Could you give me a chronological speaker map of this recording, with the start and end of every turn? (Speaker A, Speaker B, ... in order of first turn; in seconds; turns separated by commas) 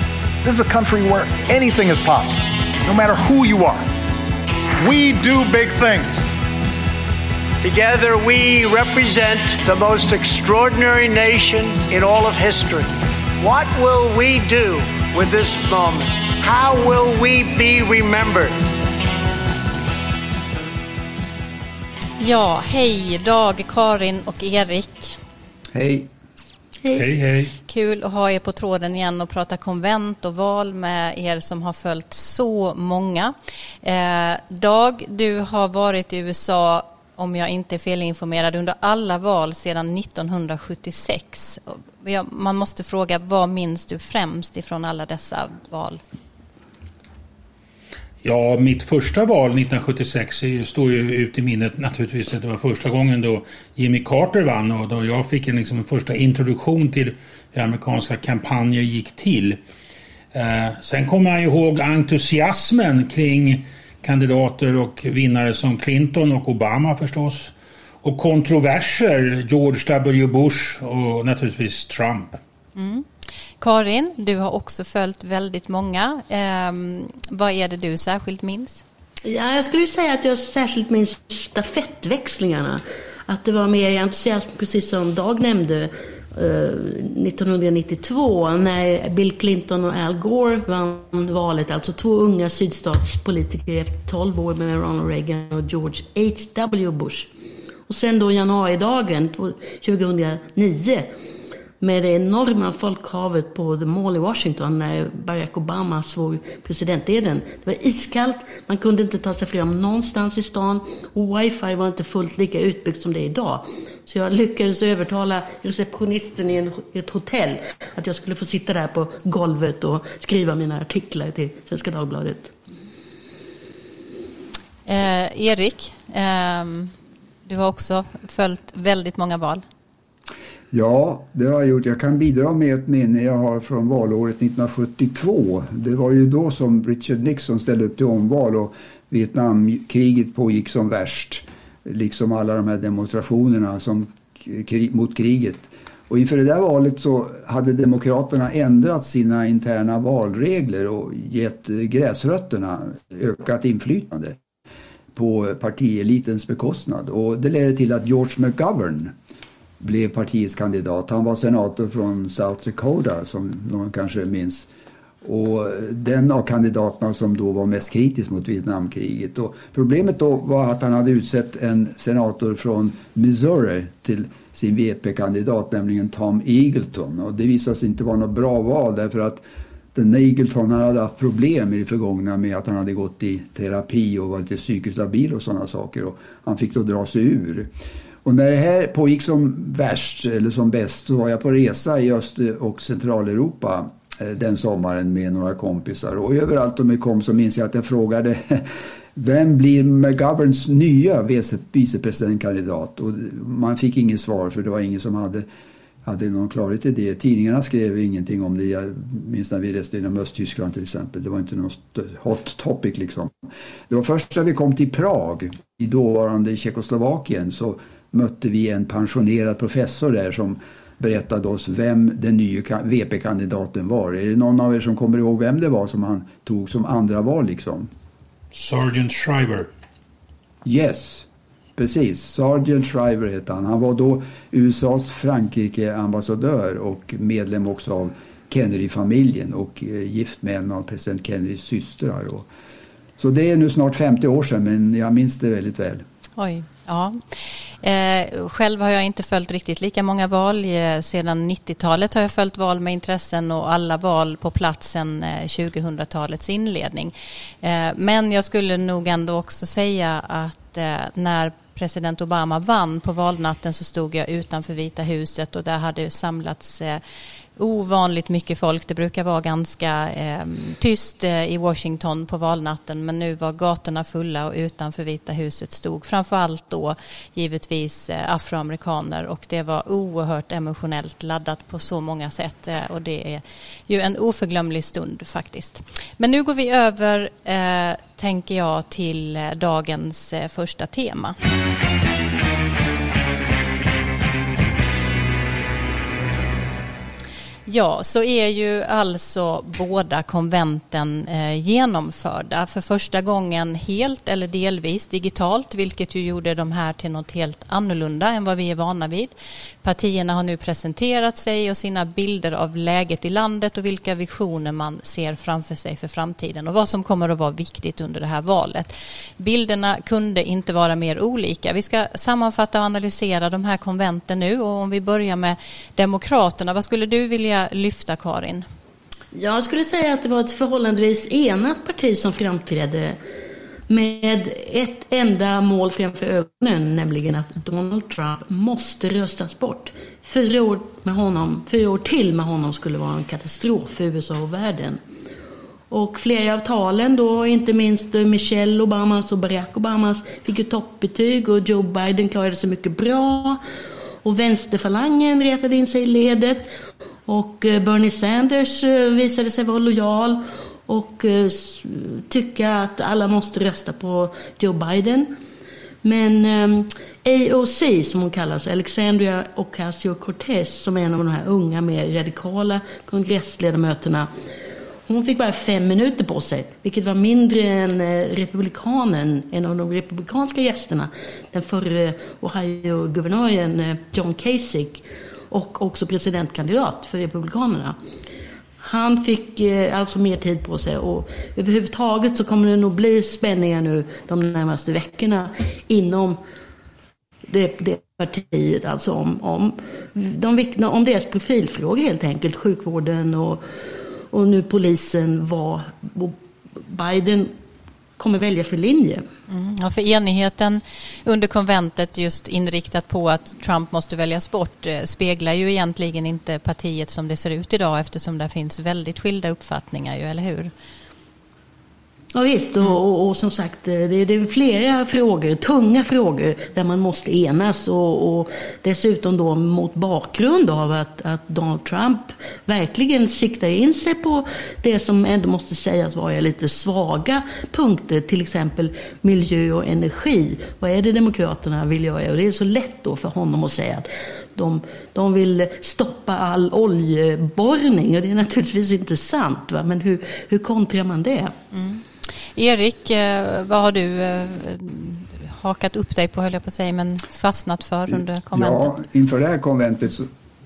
Speaker A: 0.4-3.9, Speaker A: 4.8-6.2, Speaker B: 7.6-18.6, Speaker C: 22.2-25.2, Speaker D: 25.7-26.1, Speaker E: 26.9-27.5, Speaker C: 27.7-46.0, Speaker E: 48.2-59.6, Speaker E: 60.3-72.4, Speaker C: 72.8-73.0, Speaker C: 73.6-78.8, Speaker F: 79.2-97.3, Speaker F: 97.9-101.1, Speaker F: 101.8-122.5, Speaker C: 124.8-126.9, Speaker C: 127.5-129.6, Speaker D: 130.7-154.4, Speaker D: 155.1-159.1, Speaker D: 159.8-164.7, Speaker D: 165.2-179.4, Speaker D: 179.9-187.7, Speaker D: 188.2-205.4, Speaker D: 206.0-213.3, Speaker D: 213.9-227.9, Speaker E: 228.5-229.7, Speaker D: 230.6-242.5, Speaker D: 243.2-246.0, Speaker C: 246.4-247.2, Speaker C: 247.8-267.0, Speaker C: 267.6-291.3, Speaker C: 297.6-328.6, Speaker F: 329.3-333.2, Speaker F: 333.9-345.0, Speaker F: 345.9-353.6, Speaker F: 354.2-356.7, Speaker F: 357.3-365.3, Speaker F: 366.0-374.3, Speaker F: 375.1-387.9, Speaker F: 388.8-396.4, Speaker F: 397.5-403.6, Speaker F: 404.3-407.5, Speaker F: 408.2-409.2, Speaker C: 409.5-420.7, Speaker F: 422.3-451.5, Speaker C: 451.7-452.0, Speaker C: 452.5-459.0, Speaker D: 458.5-460.3